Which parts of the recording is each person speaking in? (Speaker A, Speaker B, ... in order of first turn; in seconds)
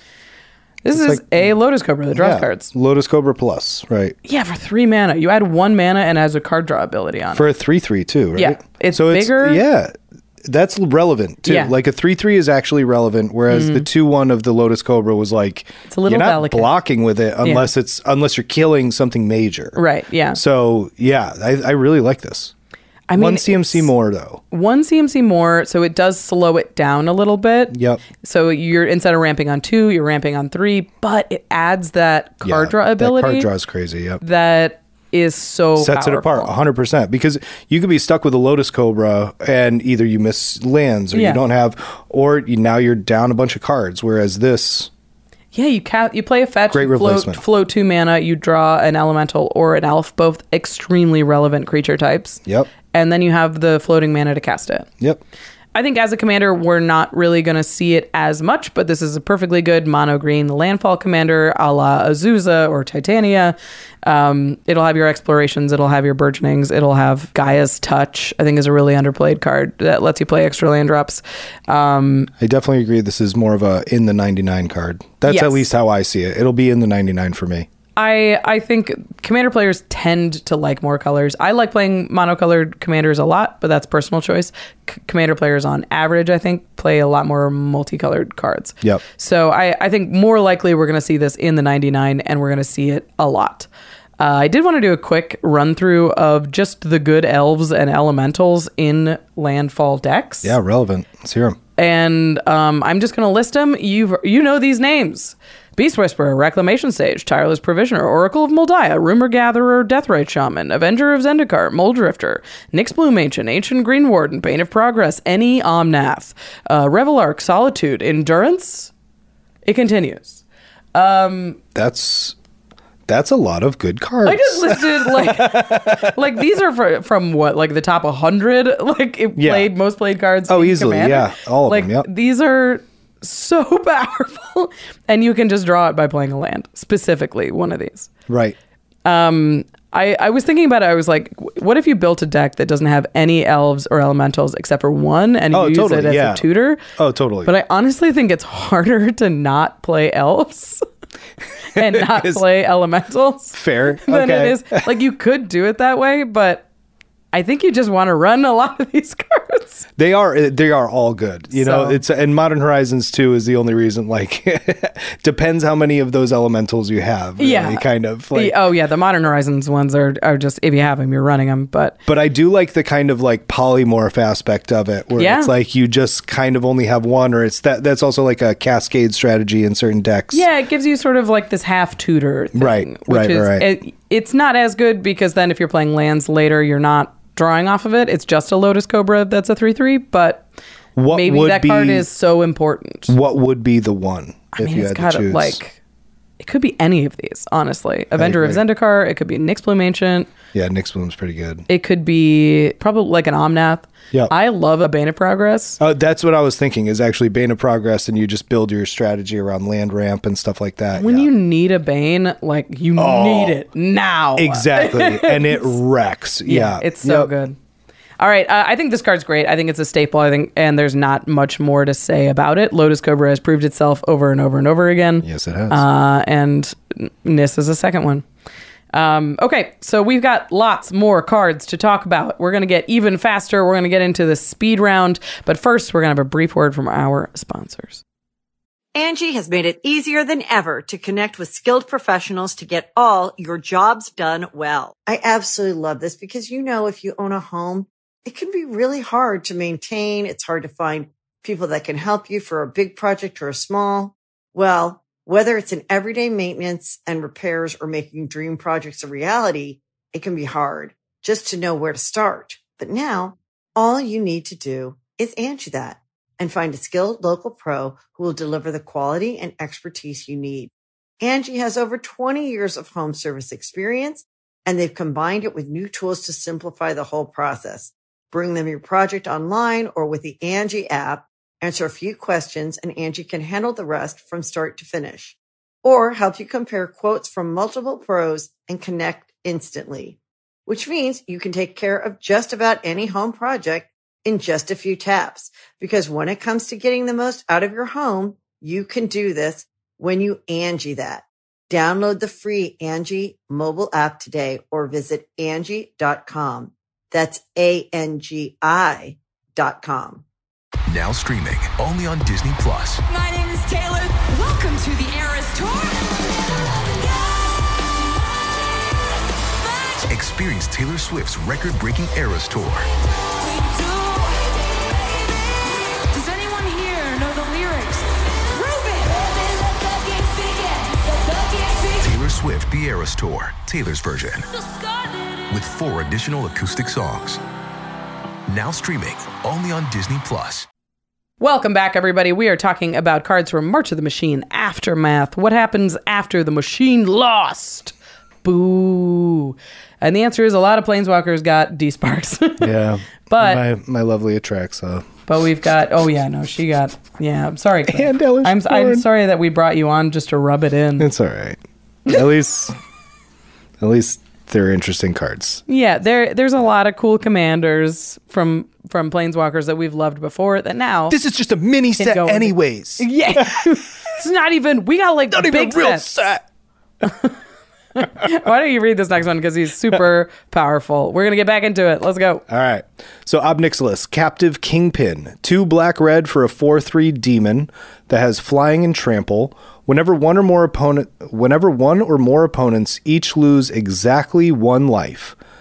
Speaker A: 0.8-2.7, 4.2-7.5, 8.3-9.6, 11.4-11.7, 13.5-13.9, 15.9-16.7, 19.8-20.4, 23.1-23.9, 24.5-33.5, 34.2-36.5, 41.1-41.4, 45.5-52.4, 52.9-54.9, 55.7-72.3, 75.2-75.6, 78.0-93.7, 94.2-100.5, 101.8-118.9, 119.6-120.4, 120.9-121.6, 124.2-138.1, 139.0-146.8, 147.4-150.8, 151.7-156.6, 157.3-159.9, 161.5-162.0, 167.4-172.0, 175.2-175.5, 180.3-190.5, 191.1-193.1, 194.5-195.8, 196.4-200.3, 201.7-205.8, 210.9-215.7, 216.4-217.6, 218.2-228.2, 228.9-238.0, 341.4-353.6, 355.2-361.1, 365.7-371.2, 372.0-376.2, 377.0-377.3, 378.0-382.4
Speaker B: 0.9-1.5, 2.1-4.2, 7.3-19.8, 20.3-22.5, 23.2-24.4, 27.7-28.0, 32.4-34.2, 35.8-44.9, 46.7-47.4, 72.4-77.7, 100.4-101.6, 121.7-122.3, 123.1-126.1, 129.3-129.7, 130.5-132.1, 138.3-138.6, 145.5-147.5, 151.7-152.4, 153.5-154.9, 160.0-168.6, 172.1-180.5, 182.5-183.7, 190.9-192.1, 193.1-195.6, 198.2-198.6, 200.5-201.7, 205.8-211.3, 212.9-213.6, 214.3-217.3, 225.2-225.8, 352.6-355.1, 357.9-359.1, 361.0-362.8, 363.8-365.6, 371.1-373.7, 375.3-376.4, 382.5-395.4
Speaker C: 238.9-310.2
Speaker D: 310.9-313.0, 320.1-322.9, 332.0-334.5, 335.5-337.4, 338.5-340.7
Speaker E: 313.0-320.1, 322.9-332.2, 334.5-335.6